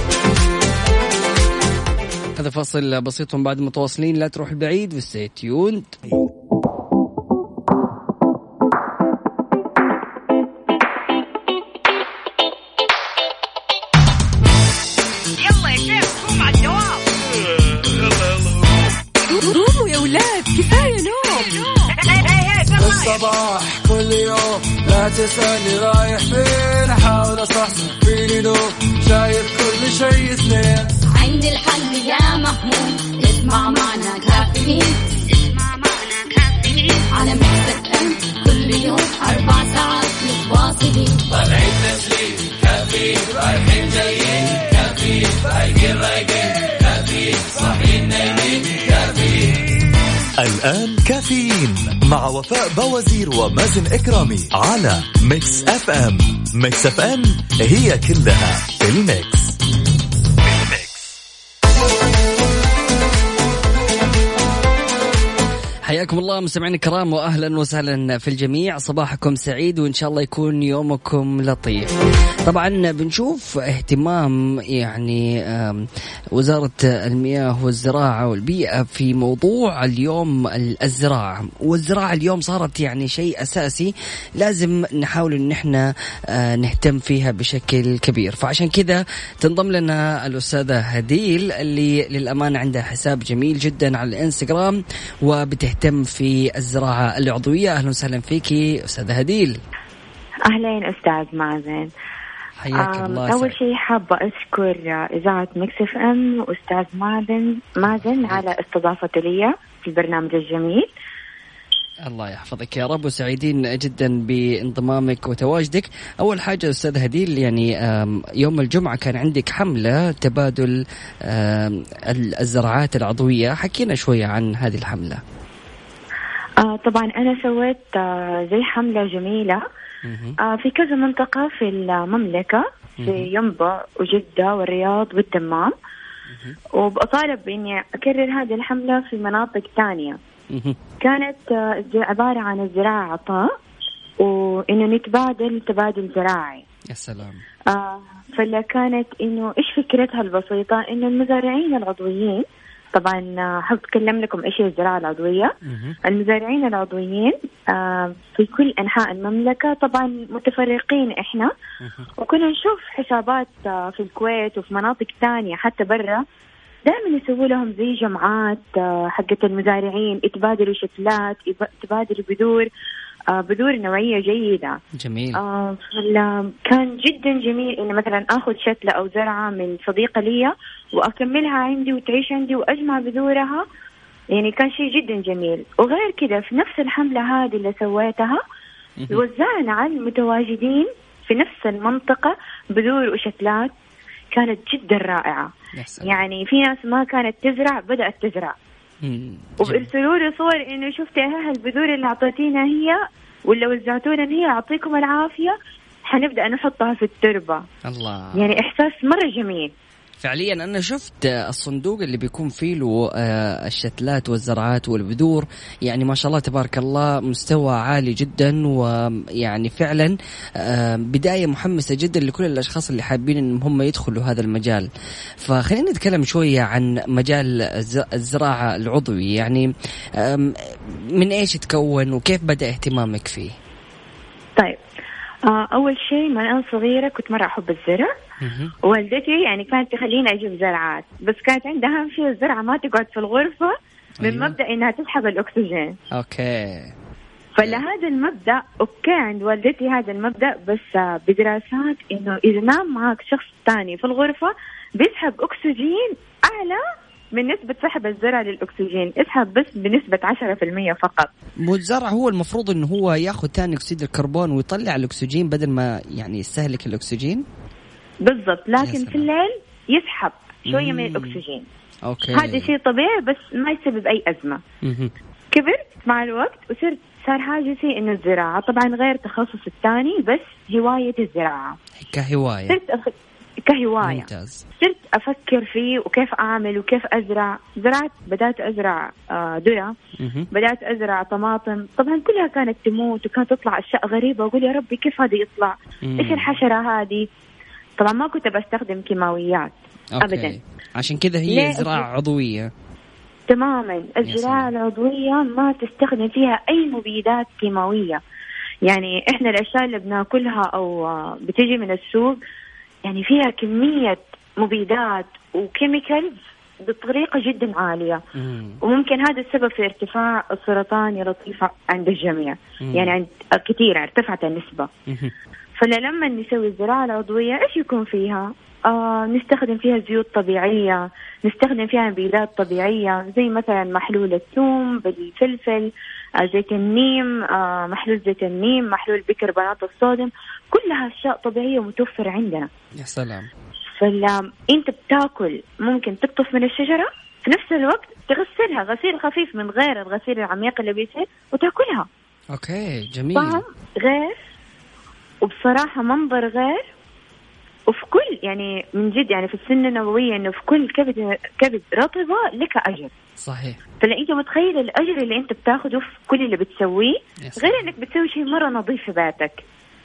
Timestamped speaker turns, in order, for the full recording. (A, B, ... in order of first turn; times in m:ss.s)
0:02.4-0:06.0 A
0:15.4-0:17.0 B
0:17.8-0:22.0 C
0:22.0-0:23.0 B
0:22.7-0:30.9 C
0:31.1-0:41.5 B
0:50.4-0:59.6 D
1:00.4-1:01.2 D
1:05.8-1:11.9 A
1:12.5-1:39.6 A
1:40.5-1:41.9 E
1:42.6-1:43.5 A
1:42.8-1:50.9 E
1:47.8-1:48.4 A
1:52.0-2:05.2 A
2:06.6-2:09.6 E
2:10.0-2:10.4 A
2:10.4-2:15.7 E
2:13.0-2:13.3 A
2:16.3-2:16.6 A
2:16.7-2:20.2 E
2:20.5-2:20.8 A
2:21.0-2:23.5 E
2:24.2-2:26.6 E
2:26.9-2:27.4 A
2:27.7-2:35.5 E
2:35.6-2:36.0 A
2:36.0-2:41.5 E
2:41.8-2:42.1 A
2:42.2-2:46.2 E
2:46.8-2:52.7 E
2:53.3-2:54.8 E
2:55.0-2:55.4 A
2:55.4-3:03.6 E
3:04.3-3:08.4 E
3:09.1-3:13.7 E
3:14.3-3:15.5 E
3:15.7-3:16.2 A
3:16.0-3:18.6 E
3:19.0-3:19.9 A
3:19.6-3:25.5 E
3:26.0-3:27.6 E
3:27.8-3:28.6 A
3:28.3-3:29.7 E
3:30.2-3:44.9 A
3:45.4-3:49.6 A
3:50.2-3:50.5 A
3:51.2-3:53.5 A
3:55.4-3:58.1 E
3:58.4-3:58.7 A
3:58.8-4:05.9 E
4:04.2-4:04.5 A
4:06.1-4:06.9 A
4:07.6-4:16.8 E
4:17.3-4:21.3 E
4:21.6-4:27.4 A
4:28.2-4:31.6 E
4:28.8-4:29.3 A
4:30.7-4:31.4 A
4:32.1-4:32.7 A
4:32.3-4:34.6 E
4:34.8-4:35.1 A
4:35.5-4:41.8 E
4:42.0-4:42.8 A
4:42.7-4:44.3 E
4:44.0-4:44.6 A
4:44.8-4:49.9 E
4:50.2-4:50.5 A
4:50.5-4:57.3 E
4:56.0-4:56.6 A
4:58.0-5:00.5 E
5:00.2-5:02.7 A
5:01.5-5:02.0 E
5:03.5-5:08.2 E
5:04.2-5:04.7 A
5:08.8-5:12.4 E
5:13.0-5:18.2 E
5:18.3-5:18.8 A
5:18.8-5:24.9 E
5:22.8-5:23.2 A
5:25.1-5:25.3 A
5:25.8-5:42.7 E
5:43.0-5:43.5 A
5:44.0-5:52.1 E
5:52.5-5:53.6 A
5:53.3-5:54.4 E
5:55.4-5:56.8 E
5:57.9-6:03.1 E
6:03.4-6:03.8 A
6:04.0-6:09.6 E
6:07.4-6:07.9 A